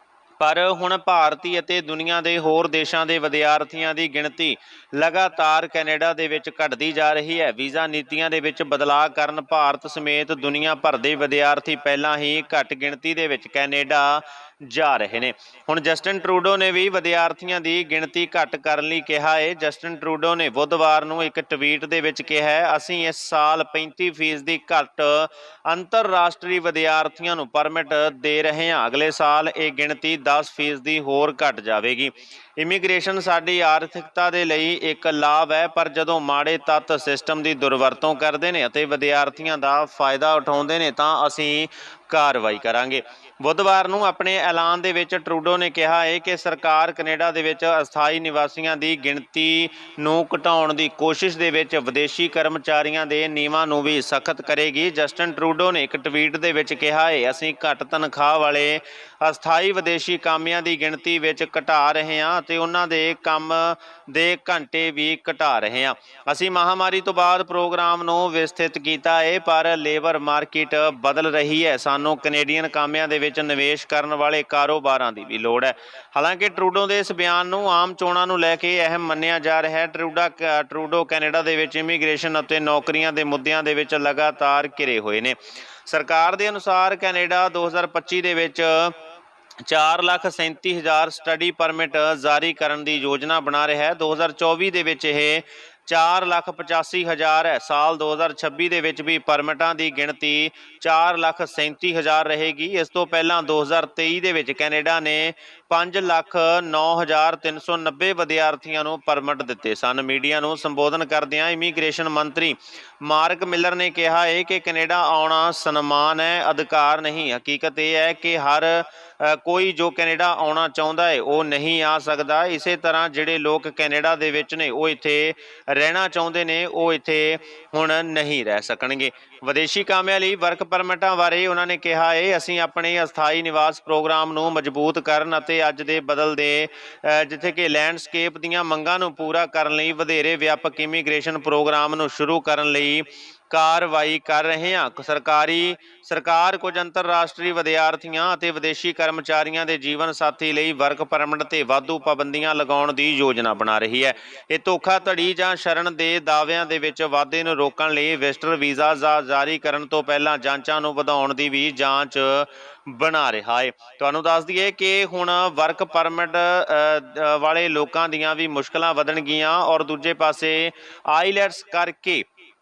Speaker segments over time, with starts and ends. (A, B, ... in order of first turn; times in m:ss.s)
0:00.4-1:28.9 A
1:29.6-2:52.2 A